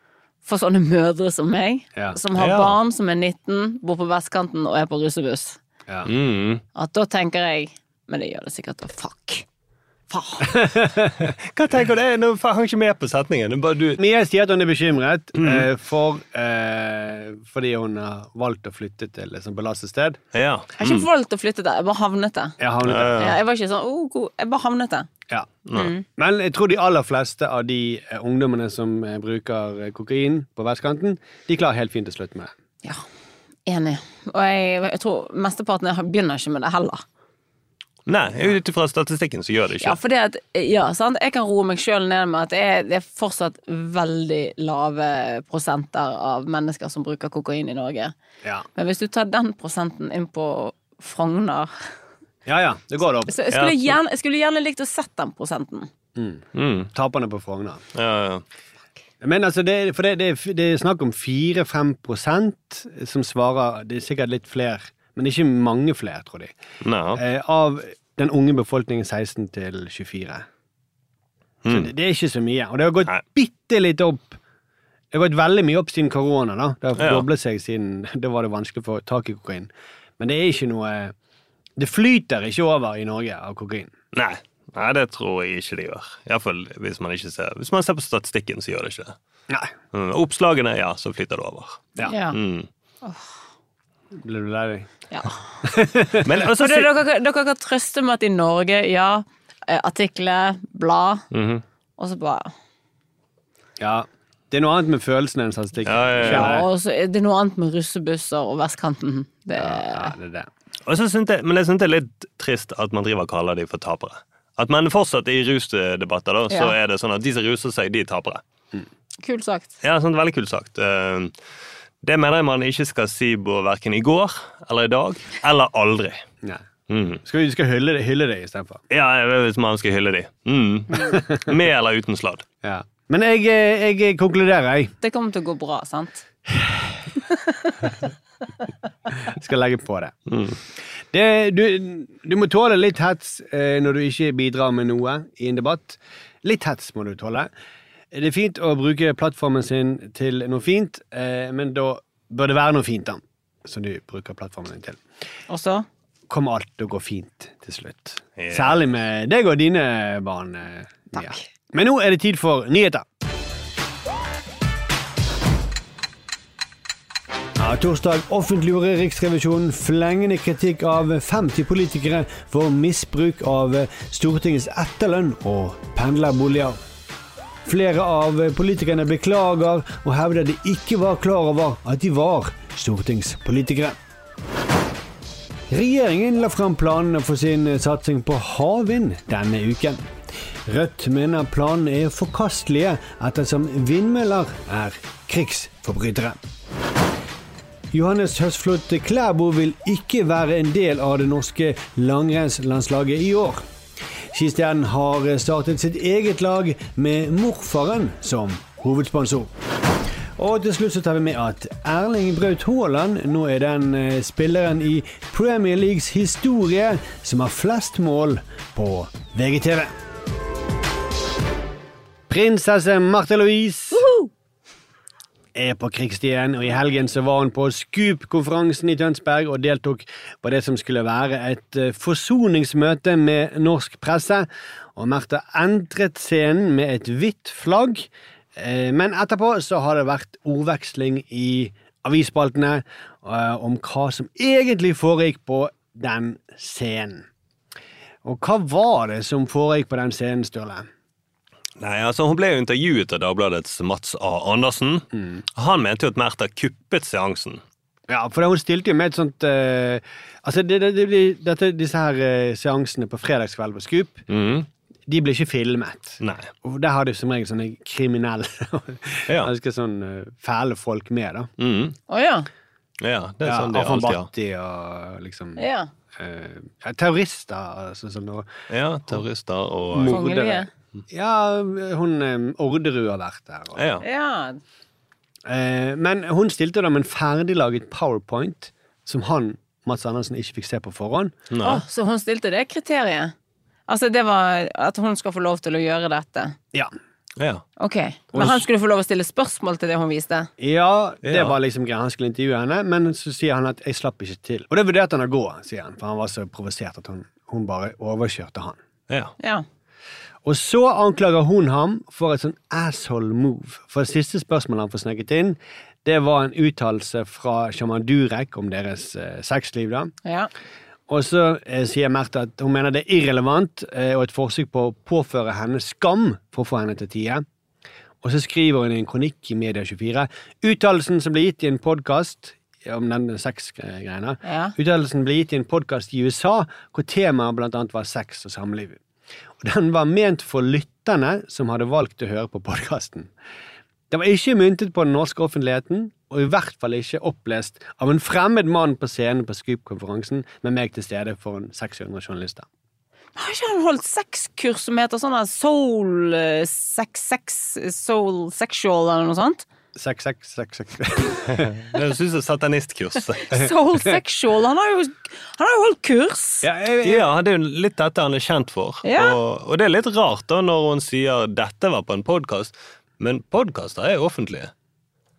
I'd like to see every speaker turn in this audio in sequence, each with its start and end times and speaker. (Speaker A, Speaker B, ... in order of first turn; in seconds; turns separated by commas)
Speaker A: 0.4-5.6, Speaker B: 2.4-2.8, Speaker B: 6.0-6.6, Speaker A: 6.7-9.4, Speaker A: 10.1-10.6, Speaker C: 10.6-11.1, Speaker B: 11.3-14.0, Speaker C: 14.0-20.2, Speaker B: 15.4-15.7, Speaker B: 20.3-21.1, Speaker A: 20.8-22.6, Speaker C: 22.6-23.3, Speaker B: 22.9-23.4, Speaker A: 23.1-25.1, Speaker B: 25.6-25.9, Speaker A: 25.7-26.0, Speaker C: 26.2-32.5, Speaker A: 33.6-37.0, Speaker B: 38.1-40.0, Speaker A: 39.8-48.1, Speaker A: 48.8-51.7, Speaker C: 52.5-53.3, Speaker A: 53.2-55.9, Speaker B: 53.5-53.9, Speaker C: 56.1-57.8, Speaker B: 56.5-56.9, Speaker B: 57.9-58.4, Speaker C: 59.2-66.5, Speaker B: 66.8-67.2, Speaker C: 67.1-70.4, Speaker B: 71.6-71.9, Speaker C: 71.7-74.4, Speaker C: 75.1-81.1, Speaker B: 77.0-77.2, Speaker C: 81.8-83.9, Speaker B: 84.1-89.1, Speaker B: 89.9-92.7, Speaker A: 92.0-92.4, Speaker C: 94.1-94.9, Speaker A: 95.1-95.4, Speaker C: 95.6-96.4, Speaker B: 96.2-96.9, Speaker A: 96.6-101.2, Speaker B: 101.3-101.6, Speaker A: 102.0-102.5, Speaker C: 103.8-106.7, Speaker B: 105.9-106.6, Speaker A: 106.2-110.1, Speaker C: 109.6-110.5, Speaker B: 110.9-118.4, Speaker A: 119.2-119.7, Speaker B: 119.8-121.3, Speaker B: 122.0-126.2, Speaker B: 126.9-127.2, Speaker C: 127.2-128.8, Speaker B: 128.9-132.4, Speaker C: 132.6-134.9, Speaker A: 135.0-136.2, Speaker C: 136.5-136.9, Speaker A: 137.3-137.7, Speaker C: 139.2-140.1, Speaker B: 140.3-140.6, Speaker C: 141.1-147.5, Speaker C: 148.1-155.0, Speaker A: 155.5-155.9, Speaker C: 156.3-163.1, Speaker B: 158.4-158.8, Speaker A: 161.1-161.4, Speaker C: 167.6-176.8, Speaker C: 177.7-183.9, Speaker C: 185.7-190.0, Speaker C: 190.7-196.4, Speaker C: 197.9-203.6, Speaker C: 204.3-209.5, Speaker C: 210.4-219.9, Speaker C: 222.3-224.1, Speaker A: 224.0-224.3, Speaker C: 225.6-247.3, Speaker C: 248.2-250.9, Speaker B: 251.8-257.6, Speaker C: 258.1-264.2, Speaker B: 264.3-264.7, Speaker C: 265.1-271.5, Speaker B: 266.2-266.5, Speaker B: 271.6-272.0, Speaker A: 272.1-272.5, Speaker B: 273.0-274.3, Speaker C: 273.4-278.5, Speaker A: 275.6-275.9, Speaker B: 278.7-280.2, Speaker C: 279.9-283.8, Speaker A: 280.0-280.7, Speaker B: 283.8-284.0, Speaker A: 284.0-284.6, Speaker C: 285.5-291.4, Speaker B: 291.5-291.8, Speaker A: 291.6-293.3, Speaker A: 293.9-296.6, Speaker B: 297.4-297.6, Speaker A: 297.8-300.5, Speaker C: 300.6-308.8, Speaker B: 301.2-301.6, Speaker A: 309.4-309.6, Speaker C: 310.4-320.1, Speaker A: 320.2-320.5, Speaker C: 321.1-327.4, Speaker C: 328.2-339.0, Speaker A: 334.4-334.7, Speaker C: 339.6-343.3, Speaker C: 344.1-352.6, Speaker A: 353.4-359.6, Speaker C: 359.9-361.7, Speaker B: 361.6-363.5, Speaker A: 363.5-366.6, Speaker C: 366.6-367.3, Speaker B: 367.0-374.7, Speaker A: 369.0-369.4